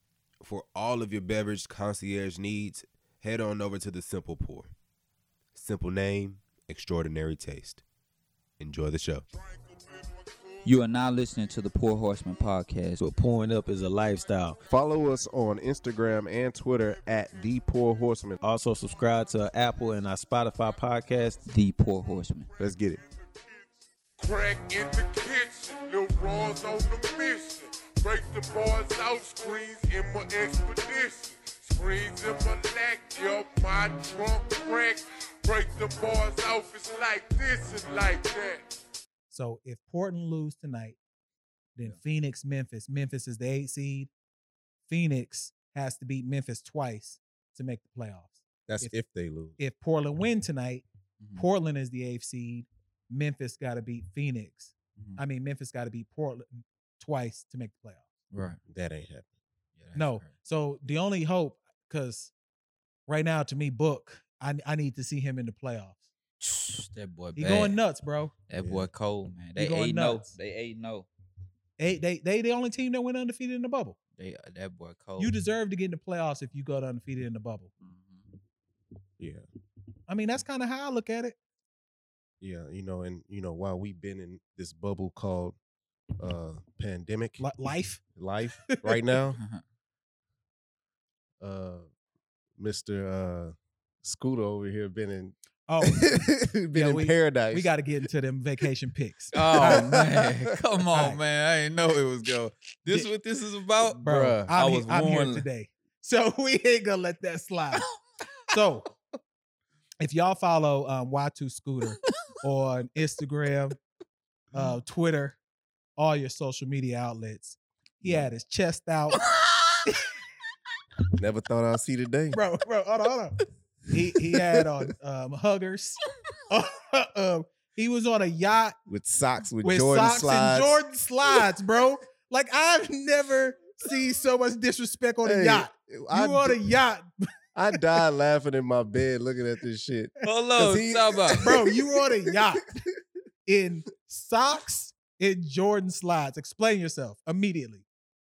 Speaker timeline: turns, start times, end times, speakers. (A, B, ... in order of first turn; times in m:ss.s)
0:00.4-0:04.7 A
0:05.5-0:07.8 A
0:08.6-0:09.2 A
0:10.6-0:13.0 B
0:13.0-0:14.6 C
0:14.7-0:18.4 D
0:18.4-0:21.4 C
0:21.5-0:22.5 B
0:22.6-0:23.0 D
0:24.2-0:38.6 E
0:39.3-0:41.0 F
0:41.8-0:44.1 F
0:44.9-0:48.9 F
0:48.7-0:49.6 D
0:49.6-0:50.8 F
0:51.2-0:51.5 B
0:51.4-0:58.0 F
0:58.3-0:58.6 B
0:58.7-0:59.3 D
0:59.8-1:00.3 B
0:59.9-1:02.3 F
1:03.1-1:06.0 F
1:06.4-1:07.8 B
1:07.4-1:08.3 F
1:08.5-1:11.1 B
1:08.6-1:08.9 D
1:09.6-1:10.3 F
1:11.8-1:14.0 F
1:14.2-1:15.3 B
1:15.2-1:17.7 F
1:17.8-1:18.2 B
1:19.2-1:19.4 D
1:20.1-1:21.3 F
1:22.4-1:25.6 D
1:26.2-1:27.4 D
1:27.4-1:28.0 F
1:28.2-1:29.4 D
1:31.4-1:31.9 D
1:32.6-1:37.7 D
1:35.7-1:36.0 F
1:36.7-1:39.9 F
1:39.3-1:45.4 B
1:39.5-1:40.3 D
1:40.9-1:41.2 F
1:43.9-1:47.8 F
1:48.5-1:48.9 F
1:50.0-1:53.8 F
1:54.5-1:55.4 F
1:56.0-1:59.2 F
1:59.2-1:59.8 B
2:01.2-2:02.4 D
2:02.3-2:03.4 F
2:03.9-2:08.8 F
2:08.9-2:10.8 D
2:09.6-2:17.3 F
2:15.2-2:16.6 D
2:17.5-2:22.5 D
2:20.2-2:21.5 B
2:21.4-2:22.7 F
2:23.4-2:27.8 F